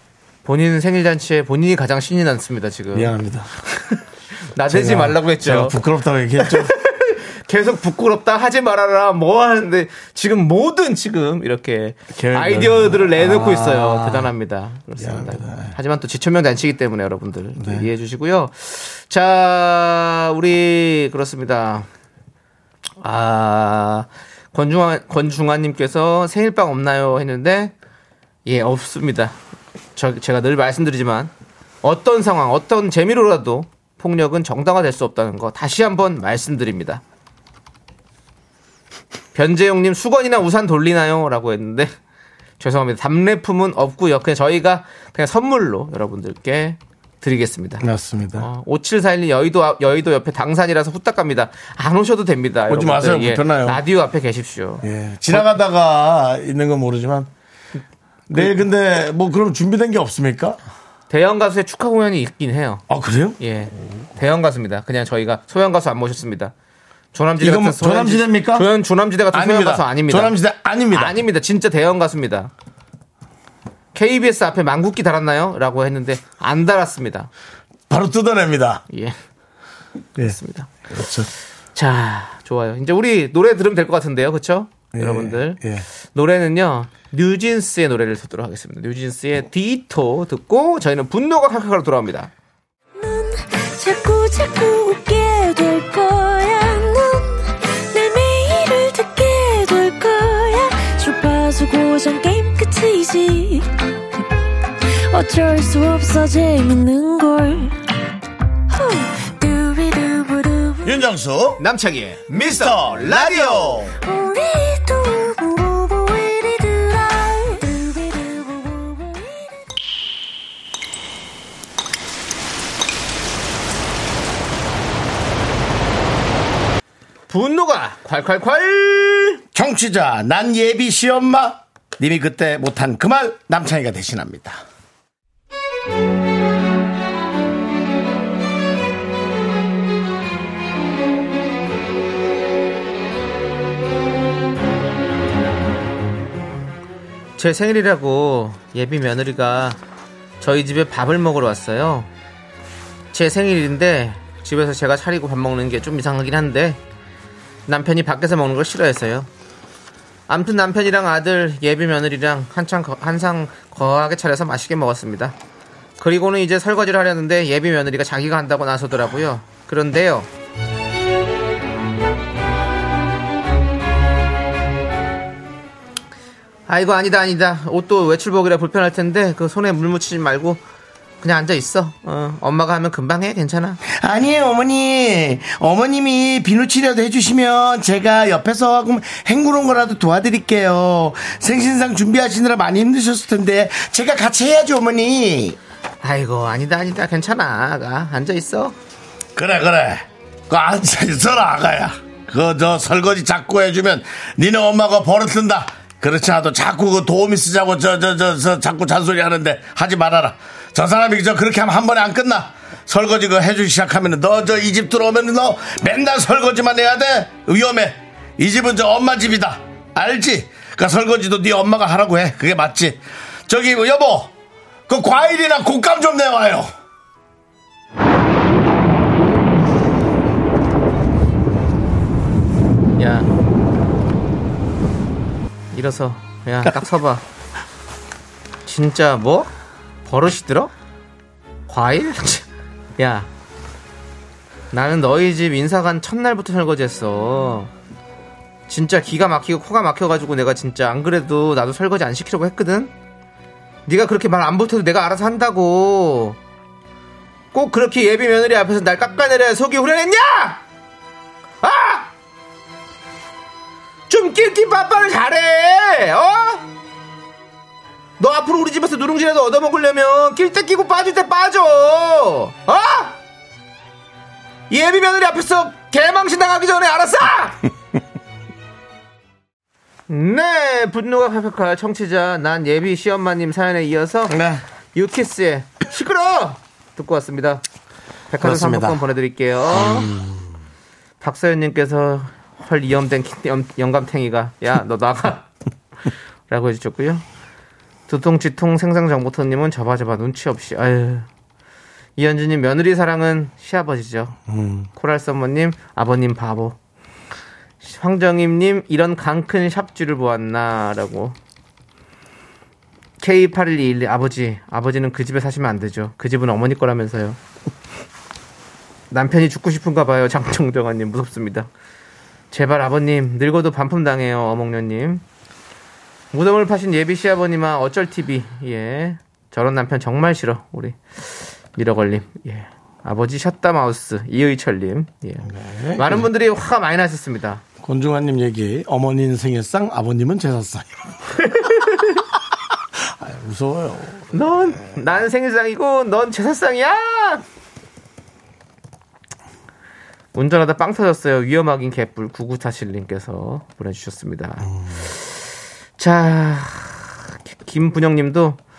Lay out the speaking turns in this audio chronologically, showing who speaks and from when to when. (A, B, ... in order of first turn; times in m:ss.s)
0:00.4-0:03.1 A
0:02.9-0:03.6 B
0:04.5-0:05.8 A
0:04.7-0:06.7 B
0:06.4-0:21.9 A
0:12.1-0:14.3 B
0:15.0-0:15.8 B
0:17.6-0:17.9 B
0:23.0-0:27.7 A
0:28.5-0:29.4 A
0:30.0-0:31.3 A
0:31.8-0:37.0 A
0:39.3-0:41.9 A
0:42.6-0:47.8 A
0:47.8-0:48.5 B
0:48.4-0:55.5 A
0:52.7-0:53.8 B
0:54.8-0:57.3 B
0:58.3-1:00.6 B
1:01.1-1:02.8 A
1:02.9-1:03.4 B
1:03.4-1:06.5 A
1:07.1-1:10.4 A
1:07.4-1:08.7 B
1:09.3-1:11.2 B
1:10.9-1:12.5 A
1:13.9-1:17.3 A
1:17.9-1:18.8 B
1:18.9-1:19.2 A
1:20.2-1:21.3 B
1:20.2-1:20.7 A
1:21.8-1:25.6 A
1:24.9-1:25.9 B
1:26.1-1:32.3 A
1:33.0-1:43.7 C
1:44.8-1:47.8 C
1:48.7-1:51.0 C
1:50.8-1:51.6 B
1:51.6-1:53.9 A
1:52.3-1:54.0 B
1:54.0-1:59.6 C
2:07.3-2:09.4 A
2:09.5-2:14.6 B
2:27.4-2:29.8 A
2:30.4-2:32.1 A
2:33.1-2:36.8 A
2:37.7-2:39.3 A
2:40.3-2:45.4 A
2:46.0-2:50.3 A
2:56.7-3:00.6 A
3:01.2-3:03.8 A
3:03.8-3:15.6 B
3:16.0-3:18.8 A
3:19.4-3:44.3 B
3:44.9-3:46.7 B
3:53.0-3:53.3 A
3:55.7-3:57.2 A
3:58.6-3:59.5 A
4:00.1-4:00.7 A
4:01.7-4:02.5 A
4:03.0-4:03.3 A
4:04.7-4:07.7 A
4:08.7-4:12.9 A
4:13.9-4:16.4 A
4:17.5-4:20.6 A
4:21.6-4:22.1 A
4:24.1-4:26.7 A
4:28.2-4:33.2 A
4:34.7-4:37.6 A
4:40.1-4:44.4 A
4:44.3-4:44.6 B
4:45.0-4:47.6 A
4:48.3-4:50.1 A
4:48.4-4:49.0 B
4:49.7-4:50.6 B
4:51.2-4:55.5 A
4:56.5-4:57.2 A
4:58.1-5:01.3 A
5:02.2-5:04.4 A
5:04.5-5:04.9 B
5:05.0-5:06.8 A
5:07.8-5:11.4 A
5:13.2-5:17.4 A
5:19.1-5:21.7 A
5:22.5-5:25.2 A
5:26.3-5:37.6 A
5:35.5-5:36.3 B
5:37.8-5:41.0 B
5:41.4-5:42.2 A
5:43.0-5:44.9 B
5:44.3-5:47.4 A
5:50.4-5:55.4 A
5:56.0-5:58.6 A